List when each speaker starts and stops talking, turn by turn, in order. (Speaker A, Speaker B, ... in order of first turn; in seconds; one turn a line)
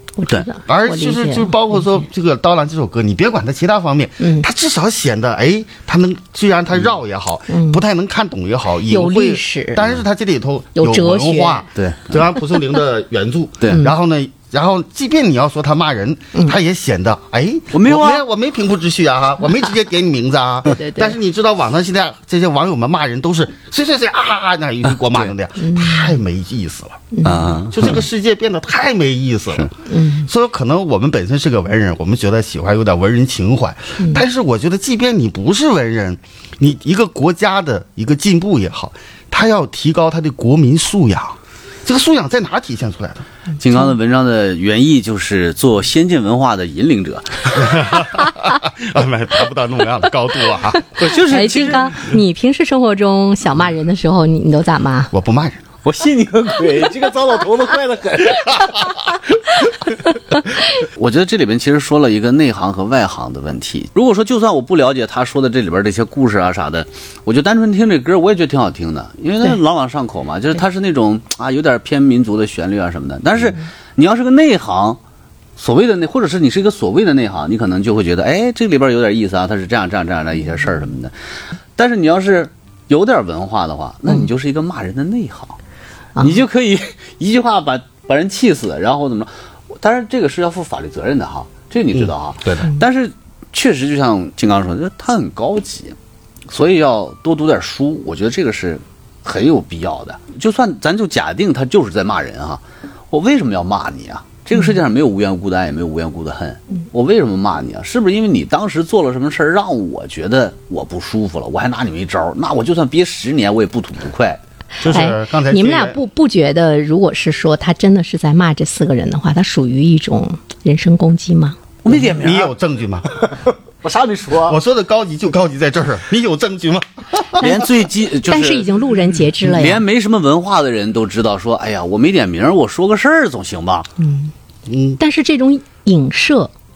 Speaker A: 0.2-2.0
Speaker B: 0.7-27.1
Speaker A: 4.2-4.5
Speaker A: 7.5-7.8
Speaker A: 8.9-9.8
Speaker A: 10.8-11.7
Speaker C: 11.8-12.1
Speaker C: 17.7-18.2
Speaker A: 20.6-21.1
Speaker A: 25.6-26.1
Speaker A: 27.1-27.5
Speaker C: 27.2-28.0
Speaker B: 27.7-43.3
Speaker A: 29.9-30.3
Speaker C: 43.6-47.8
Speaker B: 47.5-50.9
Speaker C: 51.0-52.0
Speaker A: 51.0-55.1
Speaker B: 55.1-55.6
Speaker C: 55.8-59.0
Speaker C: 60.5-75.0
Speaker C: 75.6-81.1
Speaker C: 81.8-85.6
Speaker C: 86.2-96.0
Speaker C: 96.5-114.4
Speaker B: 114.8-116.0
Speaker A: 114.8-121.6
Speaker C: 121.8-122.5
Speaker B: 122.1-123.1
Speaker C: 123.1-124.6
Speaker B: 124.5-127.6
Speaker C: 127.4-128.8
Speaker A: 128.2-129.8
Speaker C: 129.4-133.9
Speaker A: 134.0-134.3
Speaker B: 134.7-135.0
Speaker A: 135.0-136.5